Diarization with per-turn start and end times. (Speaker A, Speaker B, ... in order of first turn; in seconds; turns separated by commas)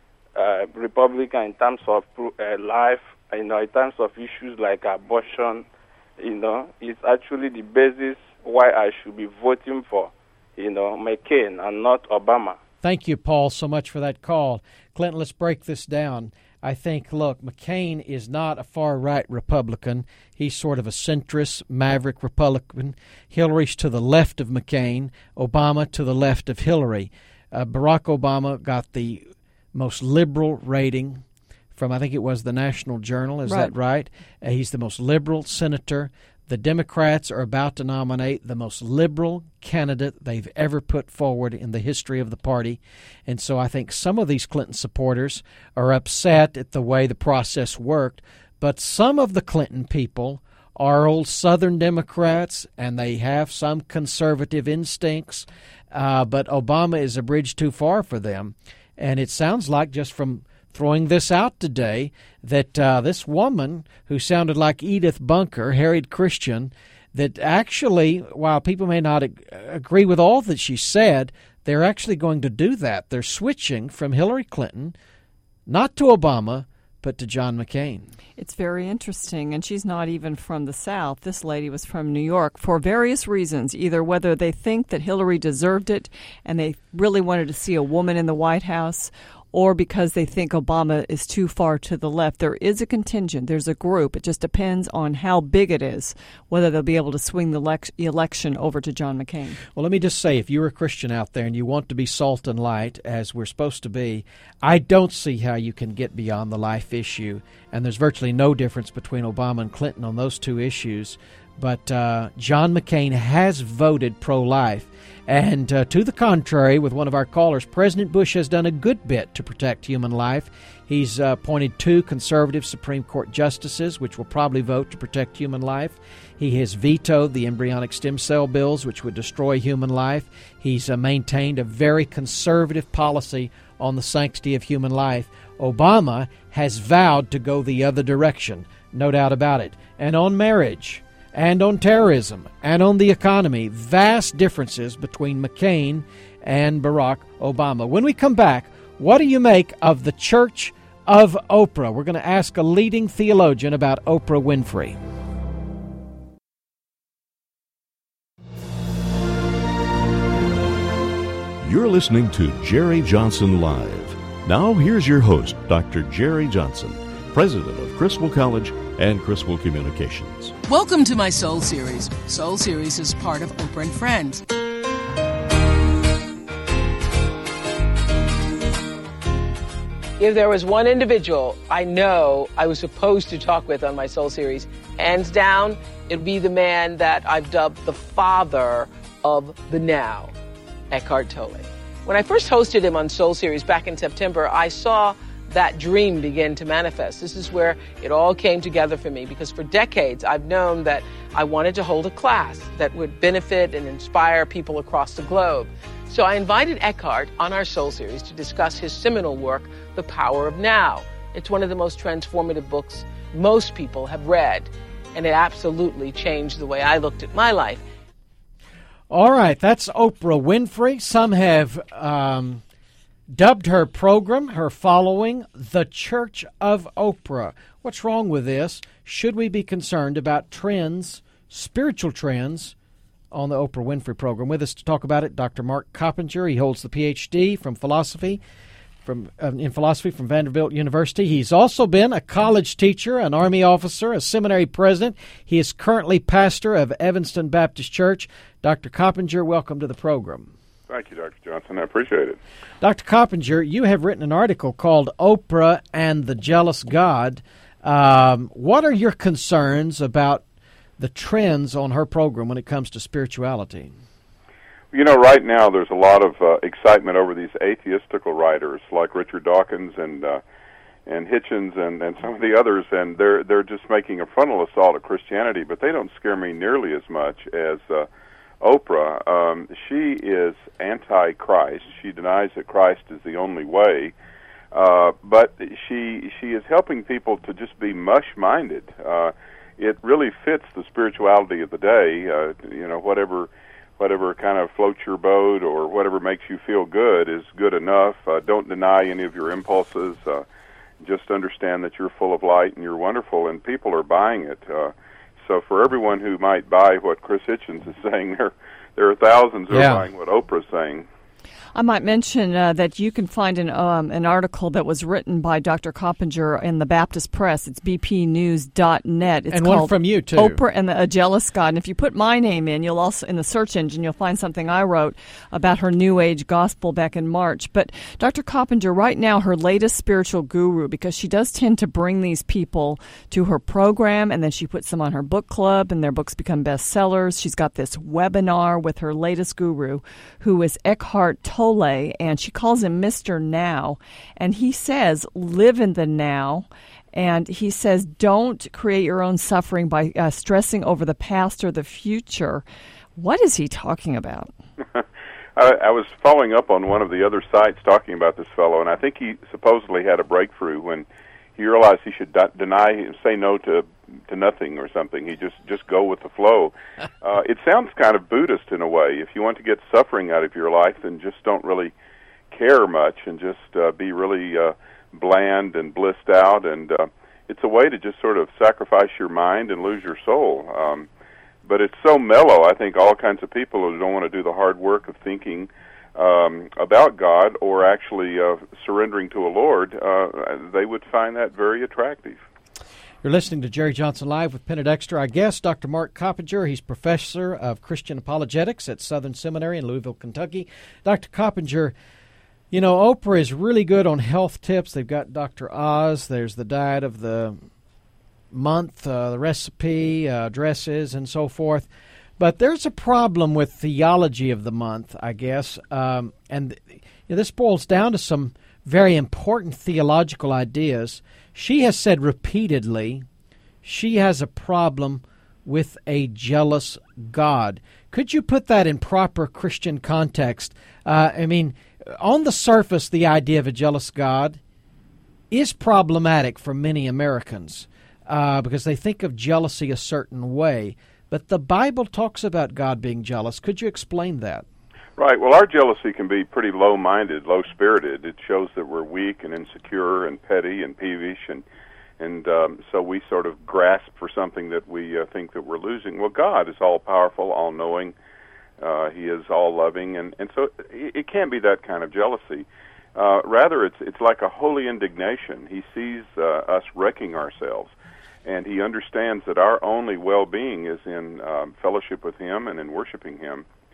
Speaker A: 0.4-5.7, Speaker A: 6.2-12.6, Speaker B: 12.8-31.2, Speaker B: 31.8-75.0, Speaker C: 33.5-33.8, Speaker B: 75.7-78.1, Speaker C: 78.4-99.6, Speaker B: 99.8-155.0, Speaker D: 161.6-170.5, Speaker E: 170.6-174.4, Speaker F: 180.2-190.3, Speaker F: 190.9-217.8, Speaker B: 219.1-222.6, Speaker B: 223.3-232.8, Speaker B: 233.3-238.4, Speaker B: 239.0-250.5, Speaker G: 250.9-252.4, Speaker B: 252.8-260.4, Speaker B: 261.0-263.9, Speaker G: 264.9-270.4, Speaker G: 271.1-278.1, Speaker G: 278.6-284.1, Speaker G: 284.7-300.4, Speaker G: 301.0-311.1, Speaker B: 309.7-310.1, Speaker C: 311.8-352.6, Speaker B: 319.5-320.6, Speaker C: 353.2-354.5, Speaker G: 355.6-371.9, Speaker G: 372.5-381.1, Speaker G: 381.6-392.4, Speaker B: 393.2-401.9, Speaker B: 402.7-407.6, Speaker B: 408.5-411.9, Speaker B: 412.4-423.2, Speaker B: 423.8-434.6, Speaker B: 435.5-444.7, Speaker G: 445.2-451.6, Speaker G: 452.2-458.1, Speaker G: 458.8-467.9, Speaker G: 468.4-473.7